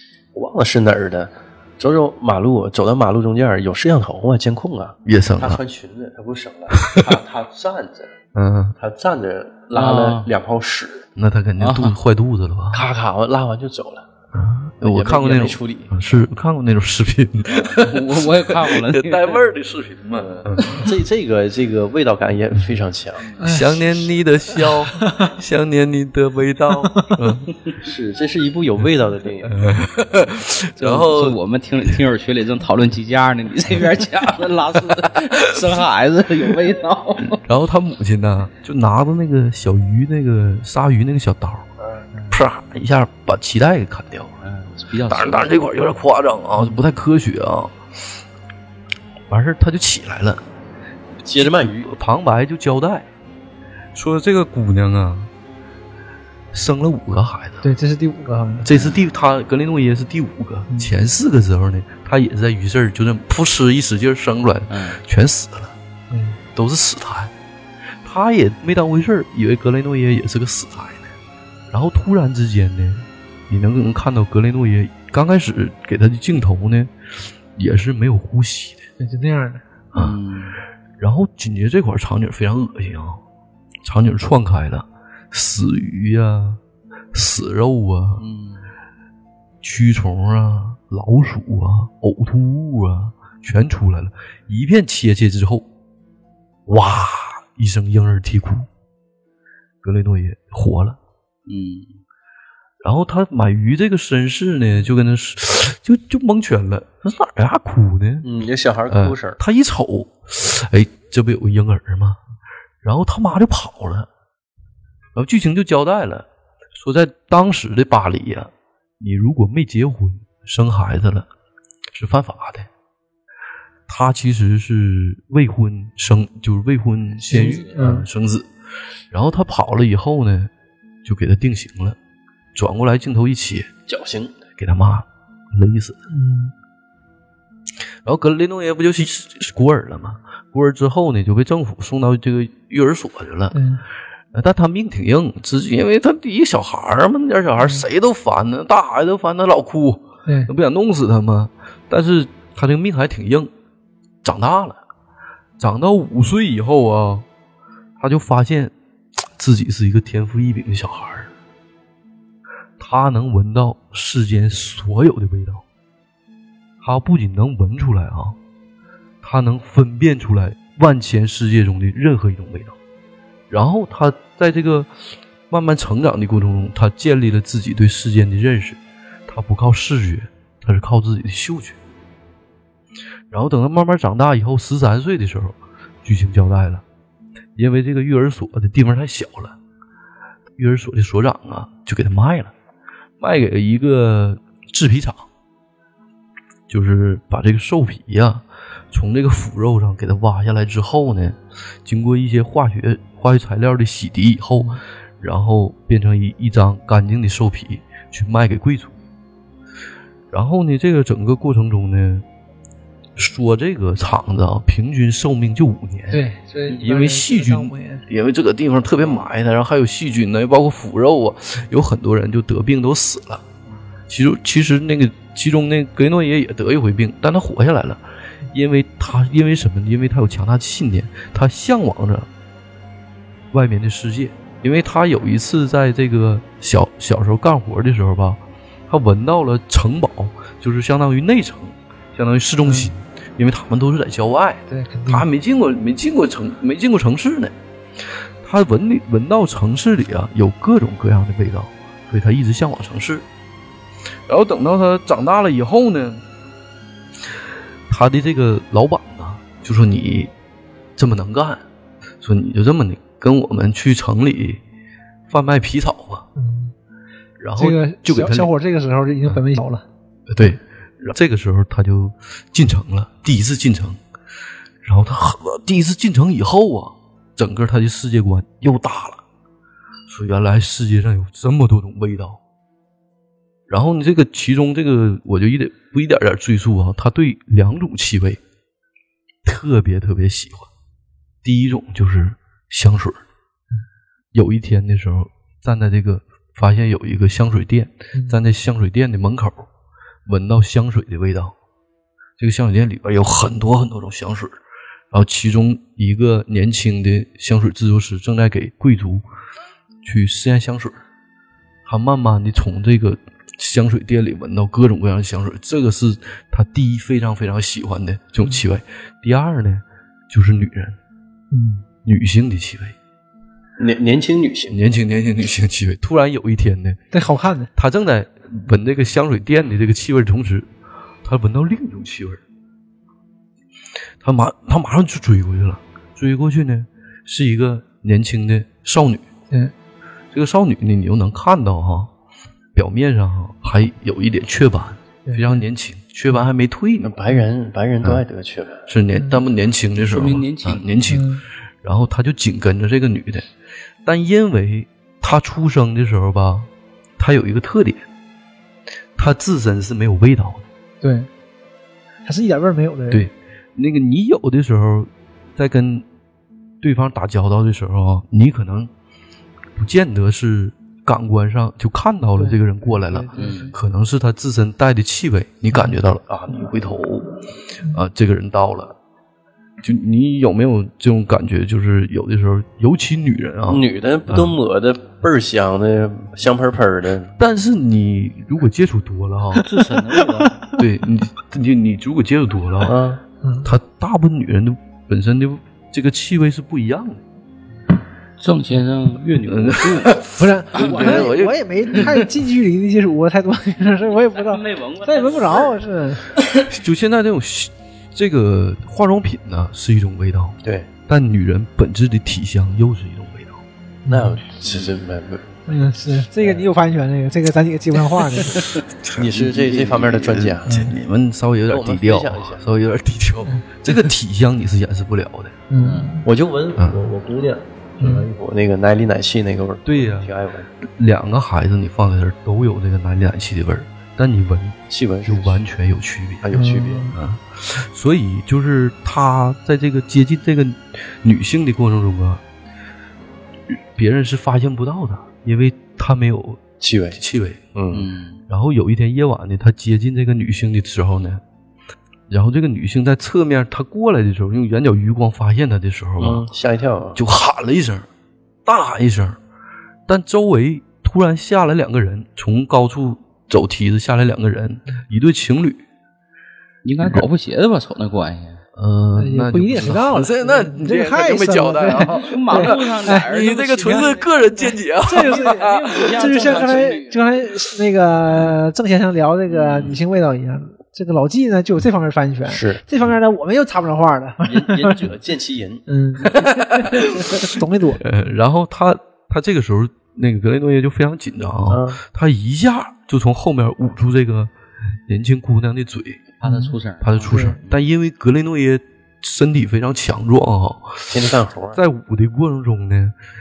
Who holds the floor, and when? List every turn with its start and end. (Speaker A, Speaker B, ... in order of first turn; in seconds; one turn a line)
Speaker A: 0.3-8.2
Speaker B: 5.0-5.6
Speaker B: 6.7-7.1
Speaker B: 8.3-8.8
Speaker A: 8.8-11.1
Speaker C: 9.7-10.3
Speaker B: 11.2-12.9
Speaker C: 11.6-12.0
Speaker A: 12.7-14.1
Speaker B: 14.3-20.8
Speaker A: 14.8-15.9
Speaker C: 17.8-19.4
Speaker A: 20.2-23.4
Speaker B: 23.4-27.5
Speaker D: 23.4-23.9
Speaker D: 24.9-25.3
Speaker A: 27.8-29.6
Speaker B: 29.4-31.4
Speaker C: 30.8-37.4
Speaker B: 37.3-41.7
Speaker B: 42.3-44.4
Speaker C: 44.4-45.6
Speaker B: 45.1-47.8
Speaker B: 49.3-50.4
Speaker A: 51.2-51.9
Speaker B: 51.4-53.1
Speaker B: 54.0-55.3
Speaker B: 56.5-57.6
Speaker D: 57.6-58.7
Speaker B: 58.6-65.8
Speaker C: 58.7-59.0
Speaker C: 64.7-65.0
Speaker D: 66.1-66.4
Speaker B: 66.5-67.3
Speaker B: 68.0-71.1
Speaker B: 71.7-76.9
Speaker B: 77.6-78.9
Speaker D: 79.0-79.6
Speaker C: 80.0-80.6
Speaker B: 81.0-83.2
Speaker B: 83.8-86.6
Speaker B: 87.1-88.2
Speaker C: 88.2-88.7
Speaker B: 89.6-95.7
Speaker B: 96.7-98.7
Speaker B: 99.8-101.0
Speaker C: 101.5-101.9
Speaker B: 102.8-108.3
Speaker A: 108.2-109.4
Speaker B: 108.9-112.2
Speaker B: 112.8-114.1
Speaker B: 115.2-121.3
Speaker B: 121.9-122.7
Speaker B: 123.9-128.5
Speaker D: 127.3-128.1
Speaker B: 129.1-130.5
Speaker B: 131.0-132.0
Speaker B: 132.6-133.7
Speaker A: 133.9-134.4
Speaker B: 134.6-136.0
Speaker D: 136.1-136.5
Speaker B: 138.1-143.6
Speaker D: 143.5-143.8
Speaker B: 144.3-153.5
Speaker B: 154.2-154.8
Speaker B: 155.6-157.3
Speaker B: 158.0-158.7
Speaker B: 159.4-161.3
Speaker B: 162.8-165.6
Speaker B: 166.8-168.4
Speaker B: 169.2-172.8
Speaker B: 173.5-181.8
Speaker B: 183.3-186.8
Speaker B: 187.6-189.6
Speaker B: 190.6-192.5
Speaker B: 193.2-195.3
Speaker B: 196.7-209.0
Speaker B: 210.3-212.3
Speaker B: 213.2-223.4
Speaker D: 216.1-218.1
Speaker B: 224.1-232.3
Speaker B: 233.5-247.5
Speaker D: 242.6-242.9
Speaker D: 244.7-245.3
Speaker B: 248.4-253.2
Speaker B: 254.3-256.2
Speaker B: 257.9-260.3
Speaker B: 261.0-261.6
Speaker B: 262.2-264.6
Speaker B: 265.3-266.3
Speaker D: 266.4-266.7
Speaker B: 267.4-268.5
Speaker D: 267.6-269.9
Speaker B: 270.3-274.0
Speaker B: 274.8-279.2
Speaker B: 280.1-282.4
Speaker B: 283.7-288.4
Speaker B: 289.4-290.7
Speaker B: 291.4-293.2
Speaker B: 294.3-299.7
Speaker B: 300.3-301.5
Speaker B: 302.4-304.6
Speaker B: 305.1-309.2
Speaker B: 310.0-311.0
Speaker B: 311.9-321.0
Speaker D: 321.5-321.8
Speaker B: 322.1-323.0
Speaker A: 323.8-324.8
Speaker B: 324.7-327.0
Speaker D: 327.1-327.7
Speaker B: 327.8-330.7
Speaker B: 331.2-332.4
Speaker B: 334.2-339.3
Speaker B: 340.3-342.1
Speaker B: 342.8-347.1
Speaker D: 345.3-345.6
Speaker A: 347.0-348.8
Speaker B: 348.9-353.5
Speaker C: 350.0-350.9
Speaker D: 351.1-351.4
Speaker B: 354.1-358.1
Speaker B: 359.2-360.7
Speaker D: 361.0-361.3
Speaker D: 362.2-363.3
Speaker B: 363.1-366.1
Speaker B: 366.8-368.9
Speaker B: 369.8-377.3
Speaker D: 372.3-373.7
Speaker C: 373.4-373.7
Speaker B: 377.9-379.0
Speaker B: 379.8-384.6
Speaker A: 383.7-387.4
Speaker B: 387.4-389.7
Speaker C: 389.6-390.7
Speaker D: 390.2-390.7
Speaker B: 390.7-393.0
Speaker A: 392.8-393.2
Speaker D: 393.4-393.7
Speaker B: 393.6-397.2
Speaker C: 398.4-400.2
Speaker B: 399.4-402.3
Speaker D: 400.3-406.4
Speaker C: 400.8-401.3
Speaker C: 404.1-405.8
Speaker B: 406.6-413.6
Speaker A: 410.6-410.9
Speaker D: 414.1-414.4
Speaker A: 414.1-415.6
Speaker D: 415.7-418.6
Speaker B: 419.1-425.6
Speaker A: 419.1-420.7
Speaker D: 420.7-420.9
Speaker A: 421.7-422.6
Speaker D: 425.7-426.2
Speaker C: 425.8-426.1
Speaker A: 426.2-430.7
Speaker D: 428.0-428.3
Speaker B: 429.9-436.6
Speaker A: 434.9-435.6
Speaker A: 436.4-437.1
Speaker D: 436.5-437.2
Speaker B: 437.1-442.4
Speaker B: 443.7-446.6
Speaker A: 446.8-447.2
Speaker B: 447.1-447.6
Speaker A: 447.8-448.1
Speaker C: 447.9-448.4
Speaker B: 448.5-451.4
Speaker B: 452.3-456.5
Speaker A: 456.2-457.2
Speaker B: 457.1-458.1
Speaker B: 458.7-459.4
Speaker B: 460.1-465.8
Speaker C: 466.8-468.6
Speaker B: 468.8-476.3
Speaker D: 469.2-473.3
Speaker C: 471.9-474.3
Speaker D: 475.0-485.0
Speaker C: 475.1-477.2
Speaker C: 479.5-479.9
Speaker A: 482.5-482.8
Speaker A: 484.4-485.8
Speaker D: 485.9-488.0
Speaker B: 486.2-494.5
Speaker A: 491.7-492.0
Speaker B: 495.1-496.3
Speaker C: 496.4-497.6
Speaker D: 496.4-496.8
Speaker B: 497.0-503.2
Speaker D: 497.3-497.6
Speaker A: 501.1-501.8